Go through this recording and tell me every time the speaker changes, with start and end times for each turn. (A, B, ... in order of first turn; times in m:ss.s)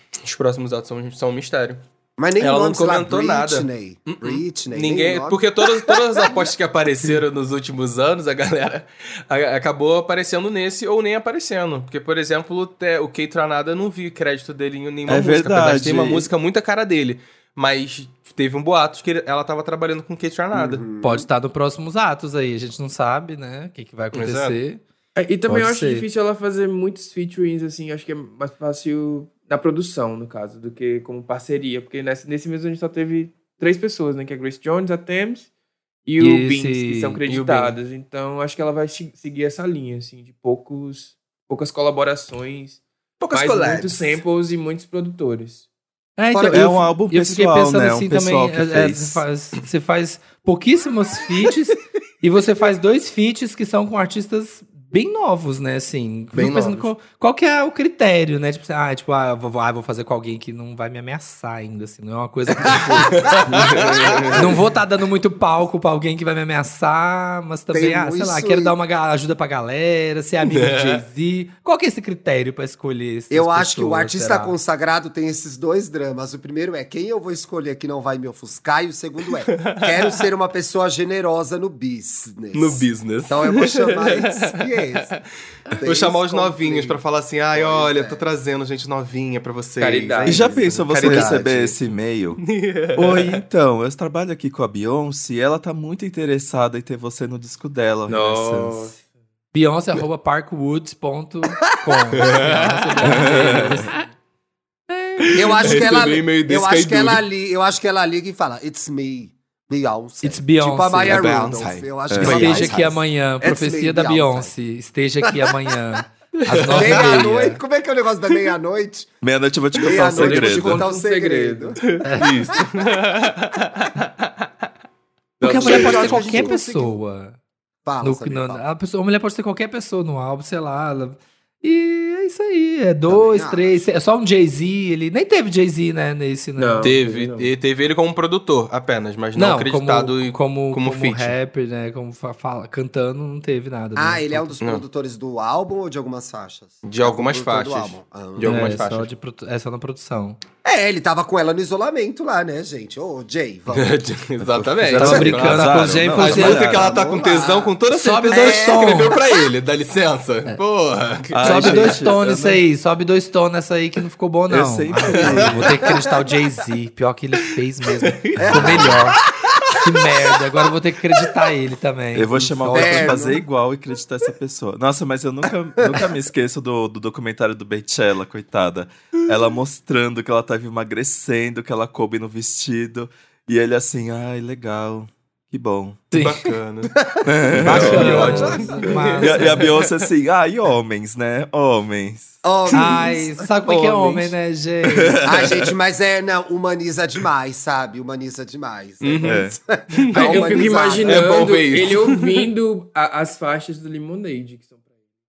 0:00.2-0:01.8 A
0:02.2-0:05.4 B
0:02.4-0:20.8 A
0:15.1-0:16.3 C
0:20.5-0:21.3 B
0:21.0-0:24.8 D
0:24.1-0:24.6 A
0:25.2-0:35.5 E
0:25.5-0:26.1 D
0:36.0-0:42.8 E
0:36.2-0:37.2 D
0:37.2-0:37.8 A
0:43.2-0:44.2 A
0:43.3-0:45.7 E
0:46.2-1:03.4 D
0:46.3-0:46.8 B
0:46.5-0:49.2 C
0:56.3-0:56.9 A
1:03.1-1:04.4 A
1:03.5-1:04.6 E
1:04.3-1:14.6 D
1:07.7-1:08.8 B
1:10.4-1:11.0 A
1:13.3-1:25.2 B
1:19.5-1:20.2 A
1:22.5-1:25.0 A
1:25.7-1:28.3 B
1:25.8-1:31.5 A
1:29.8-1:30.6 E
1:30.2-1:32.4 C
1:30.9-1:31.7 B
1:32.4-1:33.4 A
1:33.0-1:38.9 C
1:38.1-1:39.0 E
1:39.5-1:44.1 D
1:42.1-1:43.8 A
1:43.0-1:43.9 C
1:44.9-1:45.8 D
1:45.3-1:47.2 A
1:45.3-1:54.5 B
1:50.2-1:51.5 D
1:51.1-1:52.9 A
1:52.1-1:52.6 C
1:52.2-1:57.6 D
1:56.4-1:57.2 A
1:56.7-1:59.1 B
1:59.2-2:00.9 C
1:59.8-2:02.0 B
2:00.1-2:02.0 E
2:01.9-2:04.3 A
2:02.0-2:02.4 D
2:05.4-2:06.5 E
2:05.4-2:07.4 D
2:05.4-2:07.0 B
2:07.8-2:08.6 B
2:08.0-2:17.0 D
2:13.1-2:13.9 B
2:16.6-2:17.5 E
2:16.8-2:21.4 A
2:19.4-2:24.6 D
2:24.0-2:28.8 B
2:26.8-2:29.1 A
2:28.4-2:30.4 D
2:30.6-2:34.0 B
2:33.7-2:42.0 A
2:34.4-2:36.9 C
2:34.9-2:36.6 D
2:36.5-2:37.7 B
2:37.9-2:39.2 D
2:38.3-2:39.1 B
2:41.3-2:42.6 C
2:41.4-2:49.2 D
2:44.5-2:45.8 C
2:45.2-2:45.7 A
2:48.1-2:49.0 A
2:48.4-2:49.0 B
2:48.4-2:49.0 C
2:49.7-2:53.3 D
2:52.1-3:06.1 C
2:52.7-2:53.4 B
2:55.8-2:56.1 B
3:06.1-3:06.5 D
3:06.1-3:06.9 A
3:06.9-3:08.9 B
3:07.2-3:08.5 C
3:07.5-3:10.0 A
3:07.6-3:09.7 D
3:09.2-3:12.4 C
3:12.4-3:13.5 B
3:12.7-3:15.3 D
3:14.8-3:15.7 C
3:15.2-3:21.5 B
3:19.0-3:22.4 A
3:19.2-3:19.6 C
3:20.1-3:24.8 E